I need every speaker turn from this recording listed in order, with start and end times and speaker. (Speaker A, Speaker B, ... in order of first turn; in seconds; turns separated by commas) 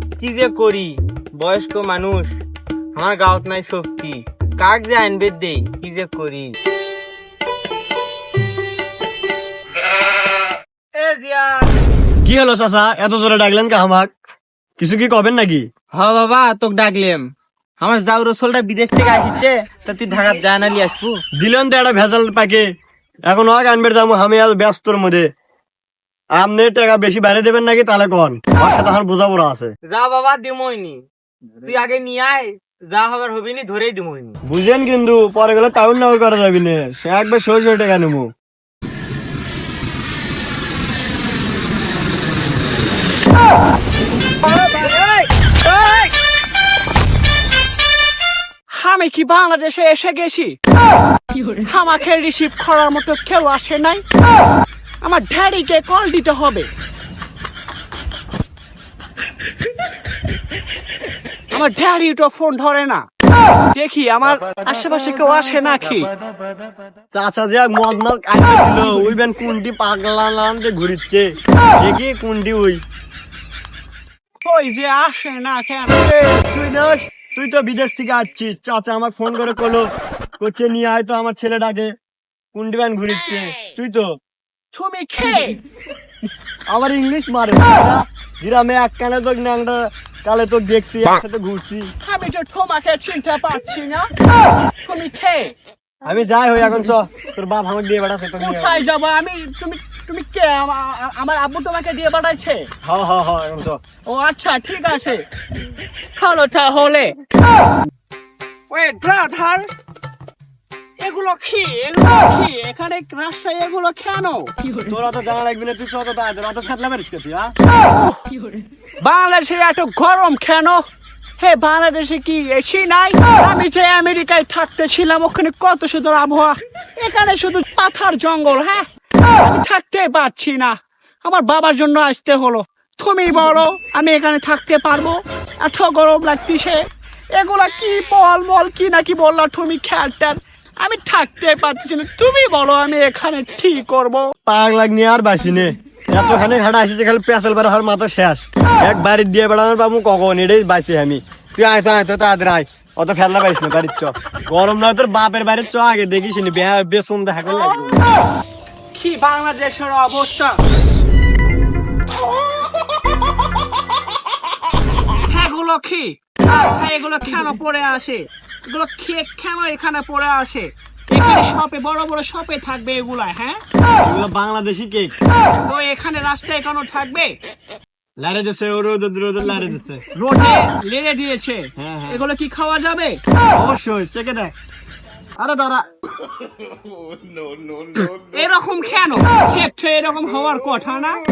Speaker A: 0.2-2.4, Speaker A: 3.0-6.5, Speaker A: 11.0-11.7, Speaker B: 12.2-14.1, Speaker B: 14.8-15.7, Speaker A: 15.9-17.3, Speaker A: 17.8-21.2, Speaker B: 21.4-22.6, Speaker B: 23.3-25.3, Speaker B: 26.4-29.7, Speaker A: 29.9-31.0, Speaker A: 31.6-34.4, Speaker B: 34.5-38.3, Speaker C: 48.7-50.5, Speaker C: 51.6-54.0, Speaker C: 55.0-56.7, Speaker C: 61.5-63.0, Speaker C: 63.7-66.1, Speaker B: 67.1-72.8, Speaker C: 74.4-76.0, Speaker B: 76.0-81.9, Speaker B: 82.5-84.1, Speaker C: 84.7-85.6, Speaker B: 86.7-91.9, Speaker C: 92.0-94.1, Speaker C: 94.8-95.5, Speaker B: 96.0-98.8, Speaker C: 98.4-102.7, Speaker B: 102.8-103.8, Speaker C: 104.1-105.2, Speaker C: 106.2-107.2, Speaker C: 108.7-109.7, Speaker C: 111.0-114.5, Speaker B: 114.9-117.5, Speaker C: 117.8-118.3, Speaker C: 119.0-120.8, Speaker C: 121.4-128.9, Speaker C: 129.4-136.8, Speaker C: 137.4-144.3, Speaker B: 144.5-158.0, Speaker C: 157.5-158.0, Speaker C: 158.9-160.6, Speaker C: 165.2-173.6, Speaker B: 174.0-175.2, Speaker C: 175.6-177.4, Speaker B: 178.2-180.0, Speaker C: 180.1-183.2, Speaker B: 181.8-182.2, Speaker B: 183.6-184.5, Speaker B: 185.4-185.9, Speaker C: 188.2-191.2